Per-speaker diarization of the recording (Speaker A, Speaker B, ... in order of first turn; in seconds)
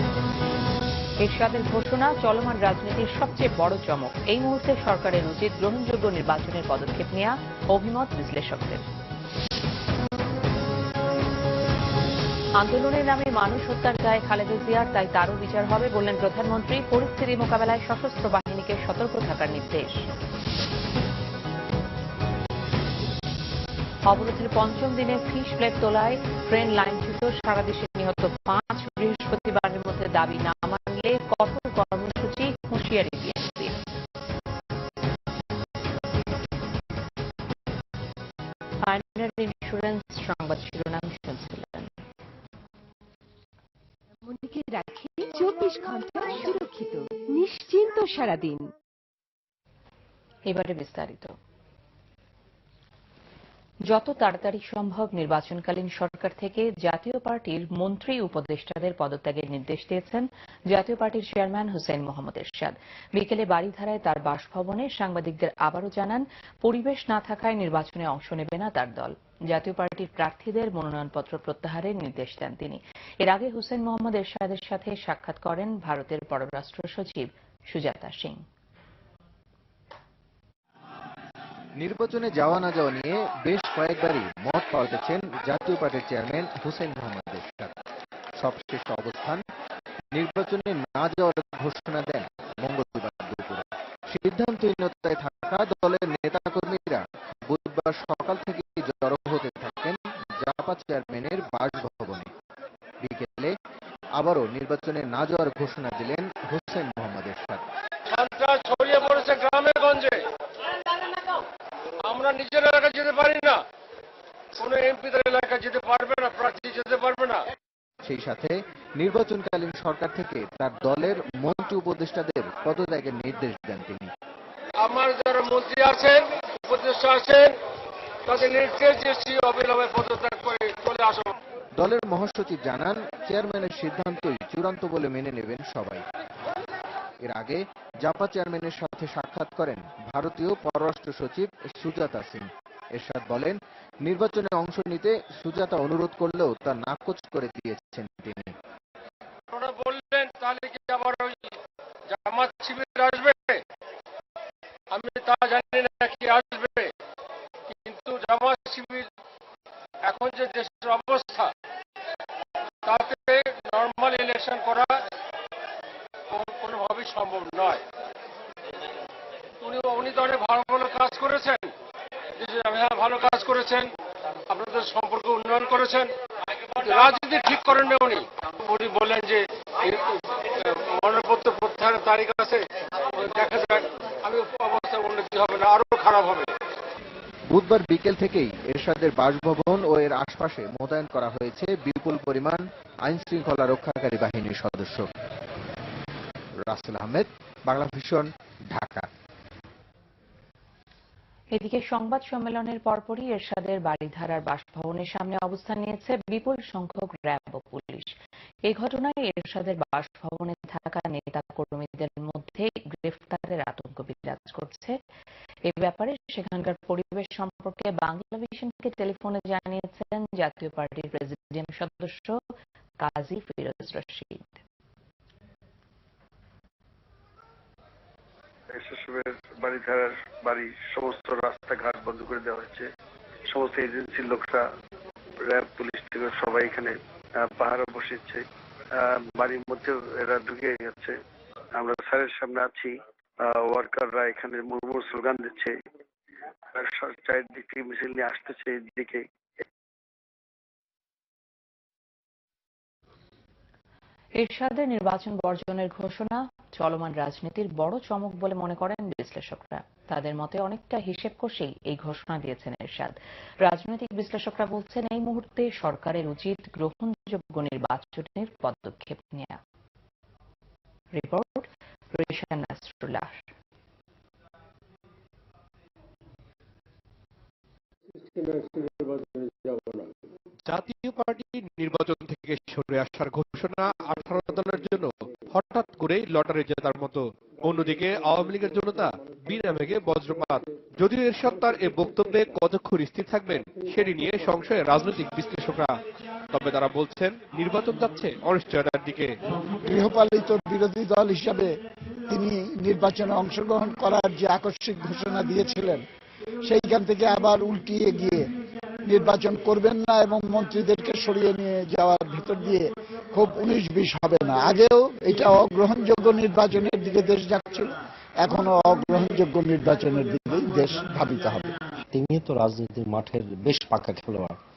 Speaker A: 1.2-8.8, 12.6-20.0, 24.1-33.8, 38.8-41.9, 50.5-51.3, 53.9-78.4, 201.5-208.1, 208.6-215.0, 215.7-222.4, 223.0-224.6, 254.4-269.6, 271.1-273.4
Speaker B: 44.3-48.7
Speaker C: 81.8-87.7, 88.4-89.4, 90.1-102.3, 103.0-103.5, 104.2-107.6, 118.0-124.1, 131.8-136.0, 137.2-148.5, 187.5-195.1, 196.7-199.1
Speaker D: 108.1-110.2, 112.0-113.6, 114.6-117.4, 124.8-127.5, 128.2-131.3, 149.5-151.6, 152.1-153.6, 154.9-156.9, 157.7-159.1, 160.1-161.5, 162.8-165.0, 166.3-167.8, 169.6-171.7, 172.4-173.9, 174.5-176.1, 176.7-186.5
Speaker E: 228.7-232.9, 233.5-234.7, 235.4-241.2, 241.8-245.8, 246.8-249.2
Speaker F: 280.7-296.0, 296.5-299.4
Speaker G: 299.9-301.7, 302.3-306.0, 306.6-308.5, 309.1-321.8
Speaker H: 322.1-324.6